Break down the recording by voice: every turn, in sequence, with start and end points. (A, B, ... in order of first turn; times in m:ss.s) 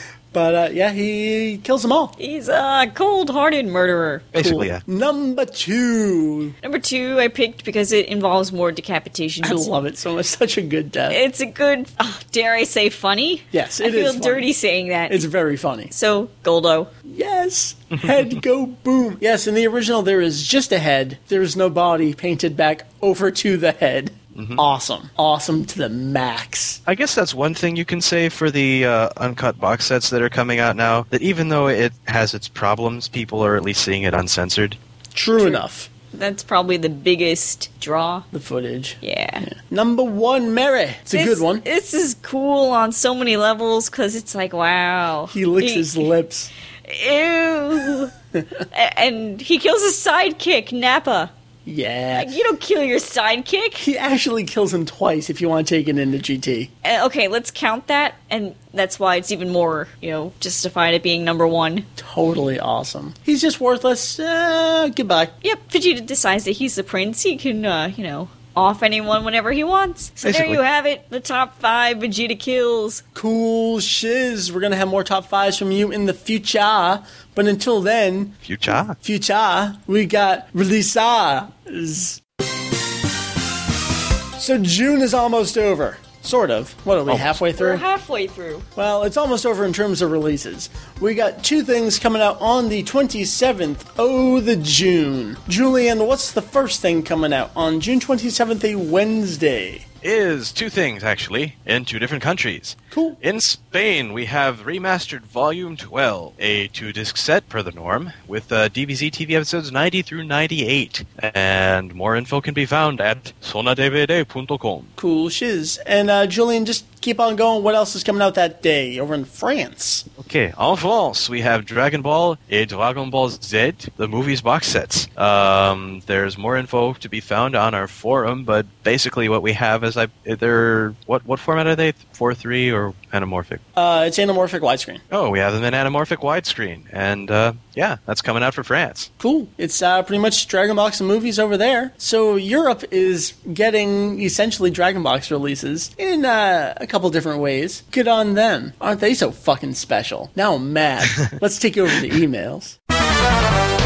0:00.3-0:02.1 A
0:02.2-0:04.3 B
0:04.3-0:04.8 C
0:04.4-0:06.6 A
0:06.6-0:09.7 B
0:09.4-0:11.2 A
0:11.1-0:15.3 B
0:13.5-0:14.5 A
0:15.1-0:15.9 A
0:15.9-0:16.9 B
0:17.1-0:26.8 A
0:24.4-0:24.6 C
0:26.9-0:34.8 C
0:35.2-0:35.9 A
0:36.1-0:38.3 B
0:38.3-0:41.6 A
0:39.0-0:39.5 B
0:41.1-0:46.1 B
0:45.3-0:46.5 A
0:46.9-0:48.1 B
0:48.7-0:51.3 B
0:51.7-0:52.3 A
0:52.2-0:53.8 B
0:53.8-0:56.7 A
0:56.8-1:01.9 B
1:02.0-1:05.3 A
1:05.4-1:13.0 B
1:10.2-1:10.6 C
1:13.2-1:18.4 A
1:18.4-1:19.0 C
1:19.0-1:22.2 A
1:24.4-1:27.8 A
1:27.1-1:27.4 C
1:27.6-1:28.7 B
1:28.8-1:39.8 A
1:40.0-1:54.9 C
1:42.9-1:43.2 A
1:55.0-2:00.1 A
2:00.2-2:13.6 C
2:13.8-2:15.0 A
2:15.1-2:19.1 C
2:19.2-2:32.8 A